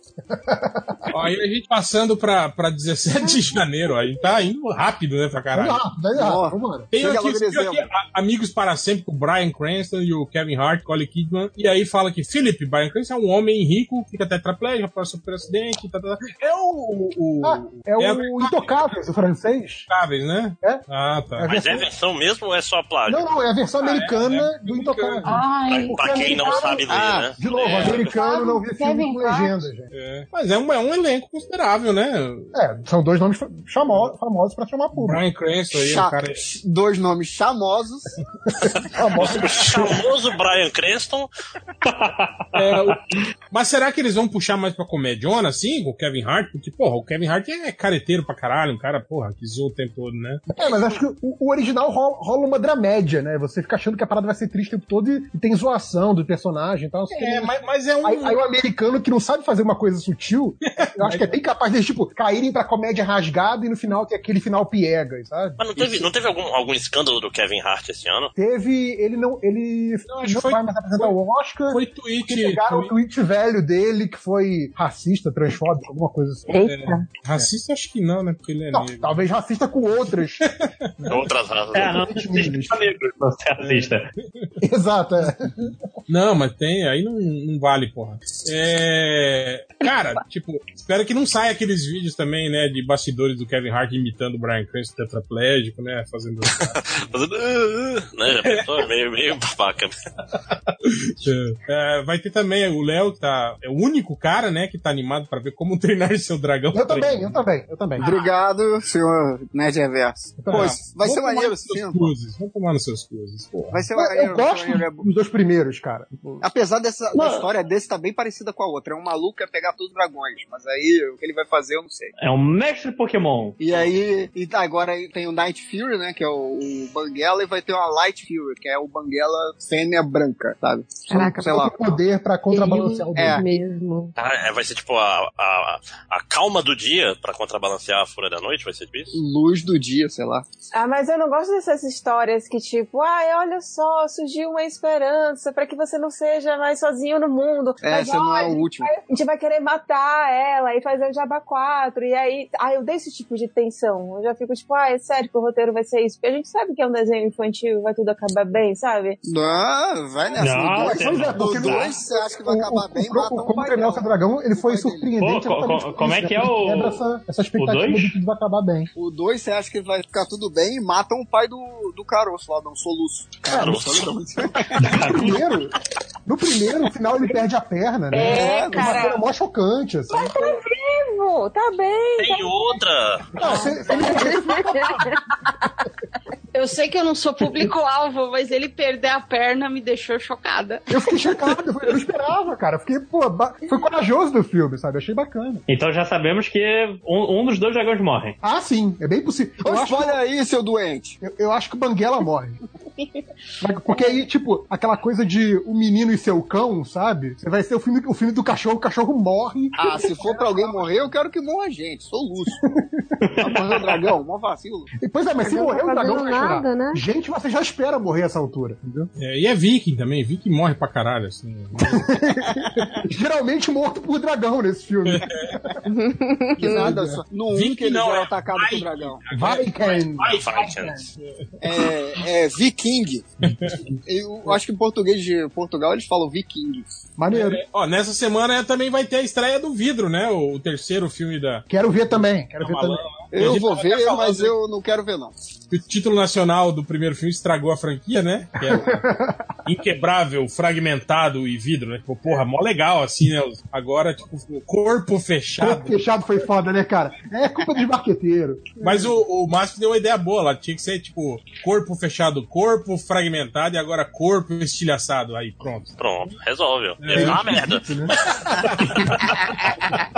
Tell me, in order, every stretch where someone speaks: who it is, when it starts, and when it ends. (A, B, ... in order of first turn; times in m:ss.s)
0:00.3-0:01.1 A
0:01.1-0:05.8 B
0:05.5-0:06.9 A
0:06.1-0:07.9 C
0:06.9-0:18.8 B
0:17.4-0:19.9 A
0:19.9-0:21.5 B
0:21.4-0:21.9 A
0:21.4-0:23.2 D
0:23.0-0:26.8 A
0:23.8-0:25.4 B
0:25.2-0:26.8 E
0:25.7-0:27.4 D
0:26.9-0:27.3 C
0:27.4-0:29.9 A
0:27.6-0:28.1 B
0:27.7-0:29.7 E
0:29.9-0:32.5 B
0:32.5-0:35.2 A
0:34.9-0:36.4 B
0:35.8-0:38.2 C
0:38.5-0:40.1 A
0:39.2-0:41.3 D
0:41.8-0:42.9 F
0:42.5-0:43.0 B
0:43.5-0:50.4 B
0:50.5-1:06.1 A
0:57.1-0:58.4 B
1:00.8-1:01.3 B
1:05.6-1:08.3 D
1:08.3-1:16.5 A
1:10.1-1:11.1 B
1:11.7-1:12.9 B
1:16.5-1:17.0 G
1:16.6-1:19.2 B
1:18.7-1:20.5 A
1:20.4-1:21.2 B
1:21.1-1:22.0 D
1:21.7-1:24.1 F
1:21.9-1:22.8 A
1:23.6-1:24.5 B
1:24.6-1:25.7 A
1:26.1-1:36.8 B
1:36.7-1:39.9 D
1:38.3-1:38.9 B
1:40.8-1:47.4 B
1:46.7-1:48.1 A
1:48.0-1:52.1 C
1:50.4-1:50.8 A
1:50.5-1:53.8 B
1:53.7-1:55.0 C
1:53.9-1:56.4 A
1:56.4-2:02.1 C
2:02.2-2:03.5 F
2:03.6-2:11.7 C
2:11.1-2:11.6 H
2:11.1-2:13.4 A
2:12.5-2:14.1 H
2:13.2-2:13.4 C
2:14.2-2:19.1 D
2:19.1-2:20.4 C
2:20.7-2:39.6 G
2:27.8-2:28.9 C
2:39.2-2:45.1 C
2:40.4-2:41.9 F
2:40.7-2:48.9 A
2:45.2-2:47.0 F
2:47.6-2:48.2 F
2:49.0-2:55.0 C
2:53.5-2:53.9 D
2:53.5-2:53.9 A
2:54.8-2:55.4 F
2:54.8-2:55.7 A
2:56.2-3:00.4 A
2:58.1-2:59.2 G
2:58.2-2:59.0 C
3:00.1-3:02.8 G
3:02.2-3:03.3 D
3:03.3-3:05.2 A
3:03.4-3:05.2 H
3:03.5-3:04.0 G
3:06.5-3:11.4 E
3:10.9-3:15.6 A
3:15.7-3:18.4 F
3:18.4-3:20.2 A
3:19.6-3:21.2 C
3:21.2-3:22.6 A
3:23.6-3:30.6 A
3:29.8-3:32.6 C
3:32.7-3:33.4 A
3:33.2-3:34.0 F
3:33.4-3:34.9 C
3:35.0-3:39.1 A
3:35.4-3:37.0 H
3:39.2-3:42.2 B
3:41.8-3:45.5 A
3:45.0-3:45.6 B
3:45.9-3:47.0 H
3:46.6-3:49.2 C
3:46.6-3:47.2 A
3:47.5-3:51.4 B
3:49.3-3:51.0 A
3:50.2-3:51.0 D
3:51.6-3:53.2 C
3:53.4-3:53.8 B
3:53.6-3:54.0 A
3:54.0-3:56.9 C
3:57.2-3:57.6 A
3:57.3-4:01.6 B
4:01.7-4:03.0 A
4:02.6-4:04.5 B
4:03.3-4:05.3 C
4:05.7-4:09.0 B
4:08.6-4:09.5 A
4:09.6-4:16.0 B
4:15.5-4:19.2 A
4:18.8-4:26.0 B
4:26.0-4:29.2 D
4:27.0-4:27.8 B
4:27.1-4:28.1 A
4:28.6-4:28.8 B